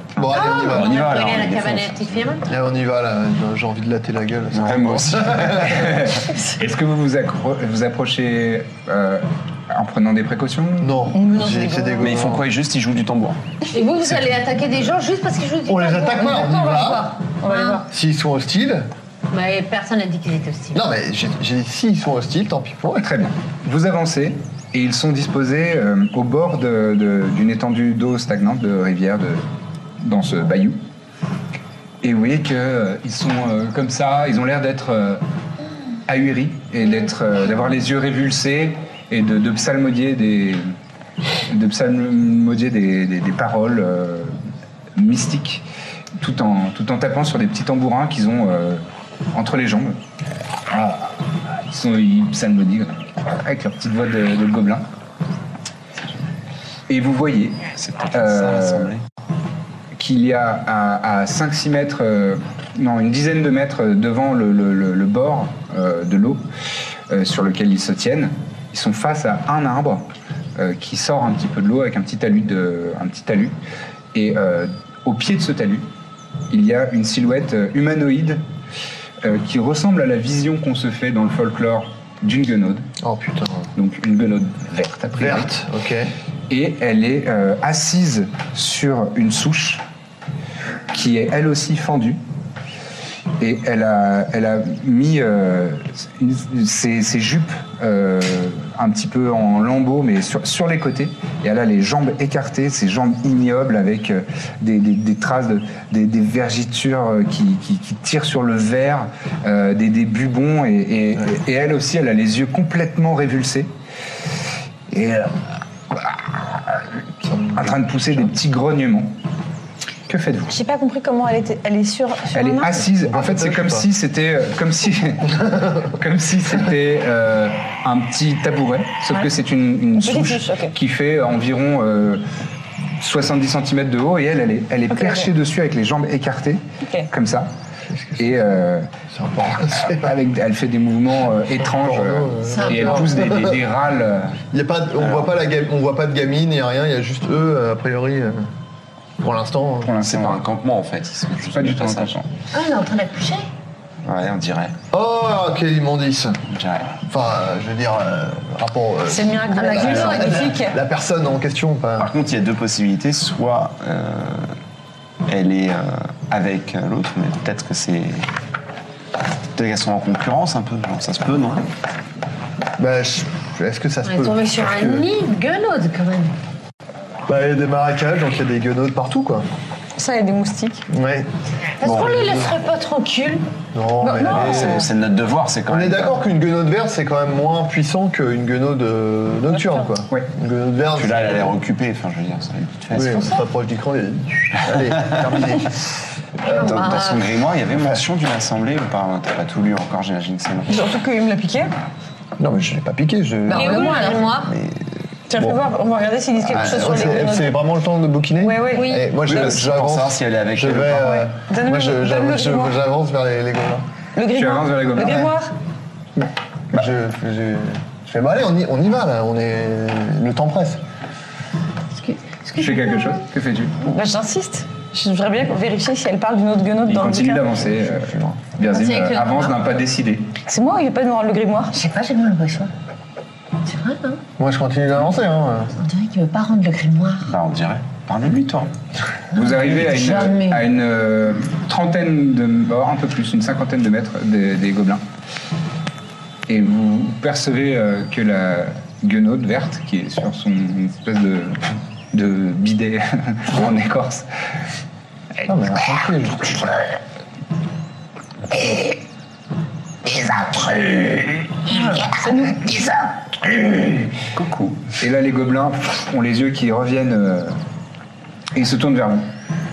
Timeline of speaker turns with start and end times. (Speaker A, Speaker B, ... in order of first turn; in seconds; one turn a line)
Speaker A: 0.2-1.1
Speaker B: 0.2-2.2
Speaker C: 0.3-2.5
Speaker A: 2.4-6.0
Speaker B: 4.5-5.9
Speaker D: 5.6-11.1
Speaker A: 10.8-12.4
Speaker E: 11.1-12.2
Speaker B: 12.0-13.4
Speaker C: 13.7-17.8
Speaker A: 15.7-17.1
Speaker E: 16.3-17.8
Speaker A: 17.9-18.9
Speaker C: 19.3-20.9
Speaker A: 20.7-23.1
Speaker D: 23.0-29.5
Speaker D: 30.0-30.8
Speaker D: 32.0-35.2
Speaker D: 36.1-40.7
Speaker D: 41.5-44.4
Speaker D: 44.9-45.6
Speaker D: 46.2-50.0
Speaker D: 50.7-54.9
Speaker D: 56.9-58.9
Speaker B: 57.7-59.0
Speaker D: 59.9-66.4
Speaker D: 67.1-73.6
Speaker D: 74.1-75.9
Speaker D: 76.5-78.4
Speaker D: 79.2-82.9
Speaker A: 83.0-83.7
Speaker D: 83.7-85.5
Speaker A: 85.2-86.1
Speaker D: 86.5-89.8
Speaker D: 90.9-92.2
Speaker D: 93.4-113.7
Speaker D: 114.9-115.4
Speaker D: 115.9-116.8
Speaker A: 117.2-117.7
Speaker D: 117.5-119.1
Speaker D: 120.1-120.5
Speaker E: 120.5-122.8
Speaker D: 122.3-132.2
Speaker A: 123.0-123.9
Speaker E: 130.0-130.7
Speaker D: 133.0-137.5
Speaker E: 134.9-135.3
Speaker E: 136.8-137.1
Speaker A: 137.9-138.3
Speaker D: 138.2-138.9
Speaker A: 139.1-140.1
Speaker D: 139.7-144.4
Speaker A: 141.6-143.6
Speaker C: 142.4-143.2
Speaker A: 144.5-148.5
Speaker B: 145.0-145.3
Speaker A: 149.2-149.9
Speaker D: 149.8-150.4
Speaker B: 150.0-152.2
Speaker D: 151.5-152.3
Speaker C: 152.5-153.4
Speaker B: 154.0-154.8
Speaker A: 154.9-156.4
Speaker B: 156.4-157.0
Speaker A: 157.1-162.1
Speaker E: 159.1-160.8
Speaker C: 159.5-160.5
Speaker B: 162.0-164.6
Speaker B: 165.3-168.3
Speaker B: 169.6-171.6
Speaker A: 172.8-175.1
Speaker C: 174.1-176.4
Speaker A: 177.3-179.5
Speaker E: 179.9-180.8
Speaker A: 180.9-181.3
Speaker C: 181.8-183.4
Speaker A: 181.8-182.5
Speaker A: 183.7-184.9
Speaker E: 184.0-184.9
Speaker B: 184.3-186.2
Speaker A: 185.7-191.5
Speaker E: 189.5-189.9
Speaker B: 190.9-193.4
Speaker A: 192.9-196.8
Speaker C: 196.5-197.4
Speaker B: 196.5-200.8
Speaker E: 200.7-201.7
Speaker A: 202.4-204.8
Speaker C: 203.5-204.5
Speaker E: 203.5-204.4
Speaker E: 205.3-207.6
Speaker A: 206.4-213.8
Speaker E: 208.4-209.6
Speaker C: 208.7-209.2
Speaker B: 209.2-211.2
Speaker E: 210.9-212.8
Speaker E: 214.2-215.5
Speaker D: 214.3-215.3
Speaker A: 215.0-215.3
Speaker A: 216.7-220.8
Speaker C: 222.0-223.2
Speaker D: 222.6-223.8
Speaker E: 223.8-227.6
Speaker D: 226.9-230.3
Speaker A: 227.6-228.4
Speaker C: 228.7-229.6
Speaker E: 230.4-231.8
Speaker C: 231.7-232.7
Speaker C: 233.6-234.2
Speaker A: 234.4-235.7
Speaker C: 235.8-237.3
Speaker B: 237.2-238.7
Speaker D: 239.3-245.0
Speaker C: 239.3-240.6
Speaker D: 246.5-254.3
Speaker A: 255.5-256.6
Speaker F: 258.6-258.8
Speaker F: 260.1-263.8
Speaker E: 261.9-262.6
Speaker D: 264.2-267.6
Speaker D: 268.5-269.3